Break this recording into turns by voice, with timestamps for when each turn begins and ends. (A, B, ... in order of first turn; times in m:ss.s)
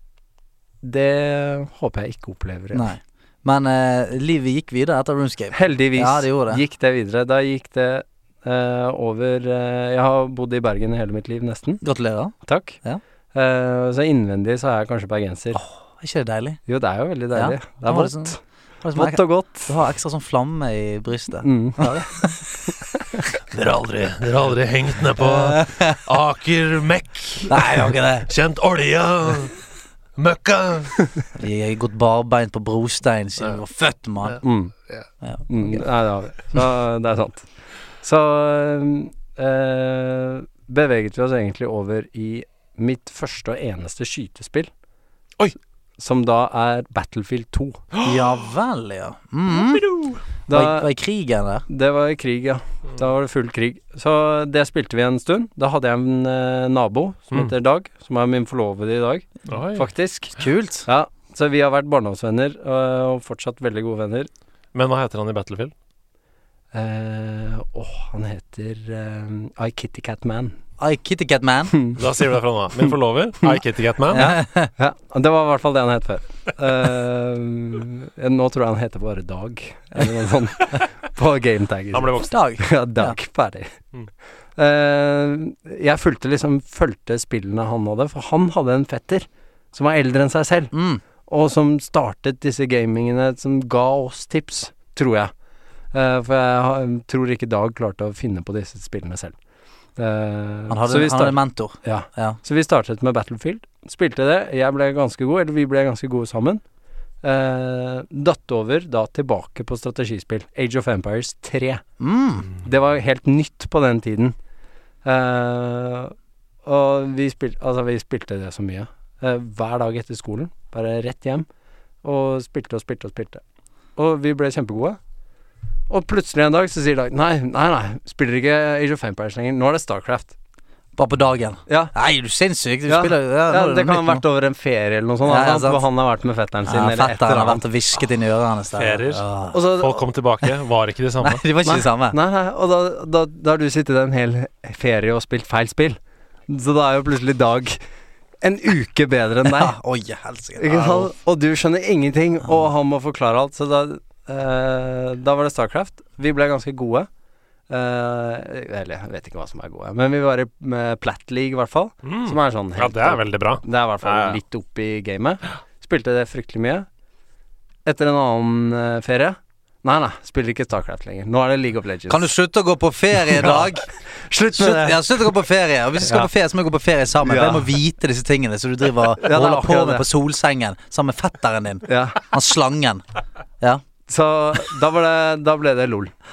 0:00.8-0:02.9 A
0:02.7-0:06.6 B
0:05.5-0:11.8 A
0:11.8-0:13.0 B
0:12.4-0:12.8 A
0:13.3-0:15.6 A
0:15.5-0:16.6 B
0:16.7-0:18.4 A
0:17.3-0:22.7 B
0:18.9-0:19.7 A
0:21.4-0:22.7 A
0:23.5-0:29.6 C
0:25.2-0:26.0 B
0:27.5-0:28.3 B
0:30.2-0:31.1 C
0:31.4-0:34.4 B
0:34.2-0:35.1 C
0:34.4-0:34.7 A
0:35.2-0:35.8 B
0:35.5-0:44.7 A
0:46.0-0:47.8 A
0:47.9-0:48.2 C
0:48.0-0:49.9 B
0:49.5-0:50.2 C
0:50.5-0:50.9 A
0:50.5-0:51.6 B
0:51.7-1:00.3 A
0:59.5-0:59.9 C
1:00.3-1:00.9 B
1:00.8-1:04.3 A
1:04.7-1:05.7 C
1:06.7-1:10.6 A
1:10.8-1:11.7 B
1:11.7-1:12.0 A
1:12.0-1:14.4 C
1:14.1-1:14.7 B
1:14.8-1:23.7 A
1:21.9-1:22.3 C
1:22.3-1:23.2 B
1:24.6-1:30.7 A
1:30.7-1:31.0 B
1:31.2-1:35.3 A
1:35.9-1:39.3 A
1:40.0-1:46.6 A
1:40.7-1:42.4 B
1:47.2-1:51.8 A
1:52.0-1:52.5 B
1:52.6-1:54.4 A
1:55.0-1:56.1 A
1:56.6-2:01.5 A
2:02.0-2:03.4 A
2:04.0-2:05.0 A
2:05.9-2:10.3 A
2:11.0-2:14.2 B
2:11.7-2:11.9 A
2:12.9-2:17.6 A
2:15.2-2:15.8 B
2:16.6-2:19.6 B
2:18.8-2:19.2 C
2:19.5-2:20.0 A
2:19.8-2:21.4 C
2:21.2-2:22.2 B
2:21.6-2:27.8 A
2:28.4-2:29.7 A
2:29.4-2:31.1 B
2:30.6-2:37.1 A
2:37.7-2:46.8 A
2:42.0-2:44.4 C
2:47.8-2:52.3 A
2:52.1-2:53.9 B
2:53.3-2:55.2 A
2:54.5-3:03.0 B
2:56.0-2:56.3 A
2:57.2-2:57.7 A
2:59.2-3:00.0 A
3:01.9-3:02.2 A
3:04.1-3:06.1 A